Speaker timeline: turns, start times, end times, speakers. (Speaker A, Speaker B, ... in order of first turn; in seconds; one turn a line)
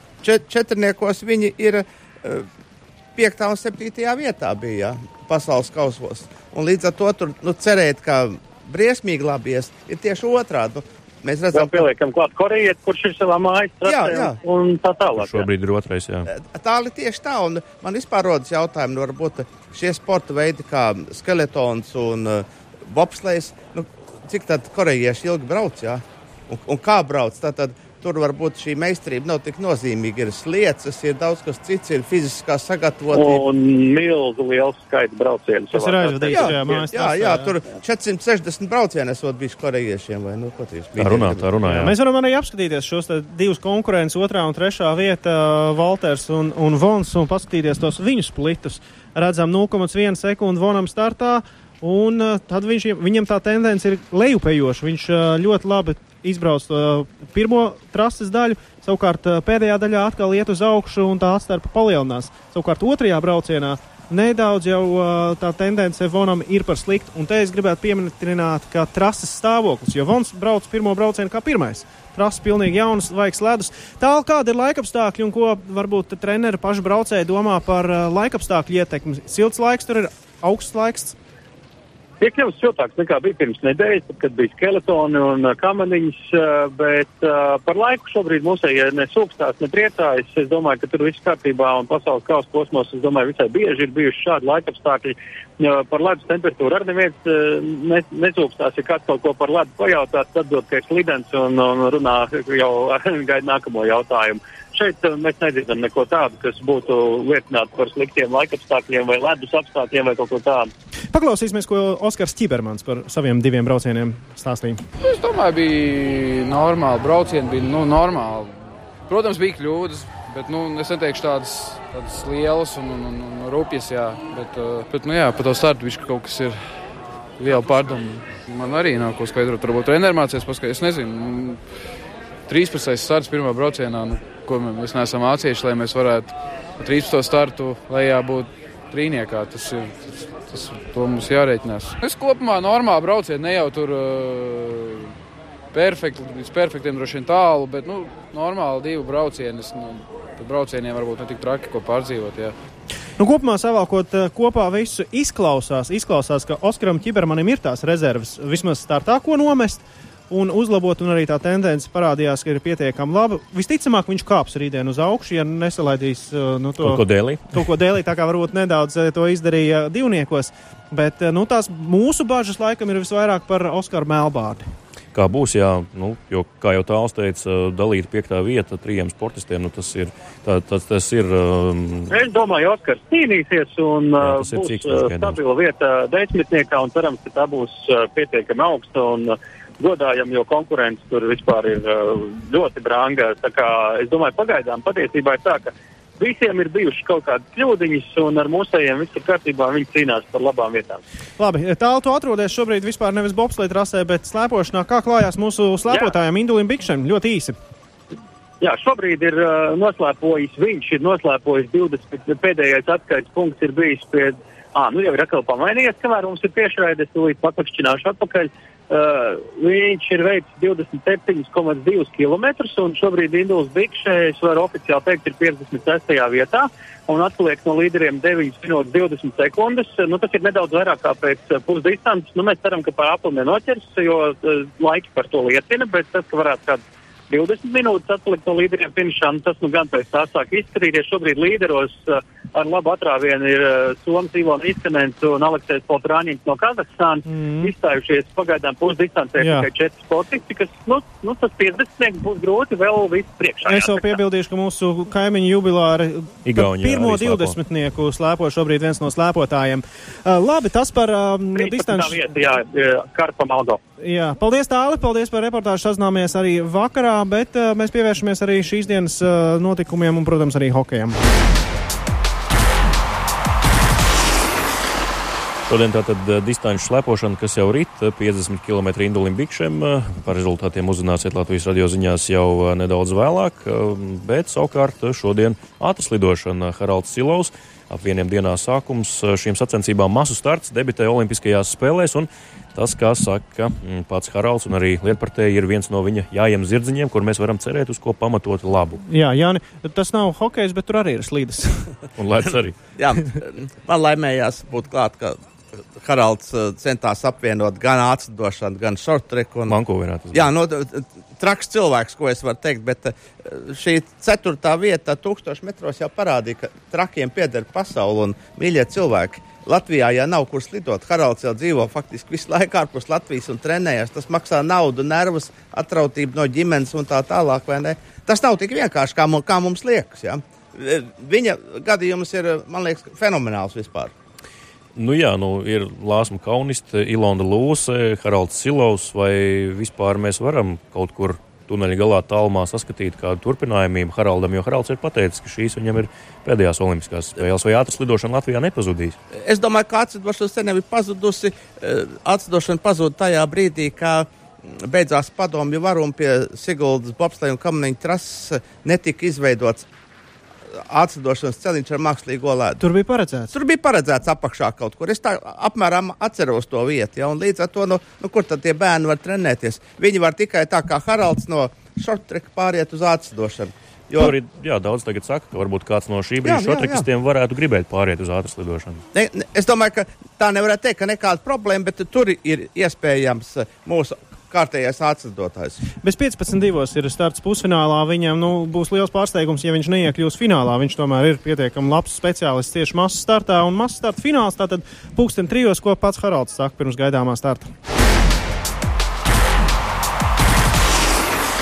Speaker A: 0.2-2.4
Speaker A: 3.1-11.8
Speaker B: 11.5-15.4
Speaker A: 13.8-14.4
Speaker C: 15.2-16.3
Speaker A: 16.3-33.4
Speaker B: 33.1-36.8
Speaker D: 35.7-37.5
Speaker A: 36.3-41.4
Speaker C: 41.0-41.9
Speaker D: 41.6-81.2
Speaker B: 82.2-110.7
Speaker D: 111.1-114.8
Speaker E: 115.0-126.6
Speaker E: 127.4-131.6
Speaker E: 132.5-145.1
Speaker E: 145.7-152.5
Speaker D: 153.2-174.7
Speaker C: 166.8-167.5
Speaker C: 175.1-182.2
Speaker B: 182.1-201.0
Speaker C: 184.2-185.4
Speaker D: 201.4-207.6
Speaker B: 205.9-206.1
Speaker B: 208.6-254.2
Speaker D: 247.3-247.7
Speaker D: 249.4-249.7
Speaker D: 253.6-262.2
Speaker C: 256.4-257.6
Speaker B: 261.5-263.8
Speaker D: 264.0-271.2
Speaker C: 275.7-299.0
Speaker D: 299.1-301.9
Speaker C: 302.2-302.8
Speaker A: 302.9-305.4
Speaker A: 305.9-309.8
Speaker C: 309.7-310.5
Speaker A: 310.3-334.1
Speaker C: 334.9-349.2
Speaker A: 349.4-359.9
Speaker A: 360.9-362.8
Speaker D: 362.8-363.5
Speaker A: 363.5-374.3
Speaker C: 374.1-379.0
Speaker A: 376.4-377.0
Speaker A: 379.1-385.8
Speaker D: 386.0-397.7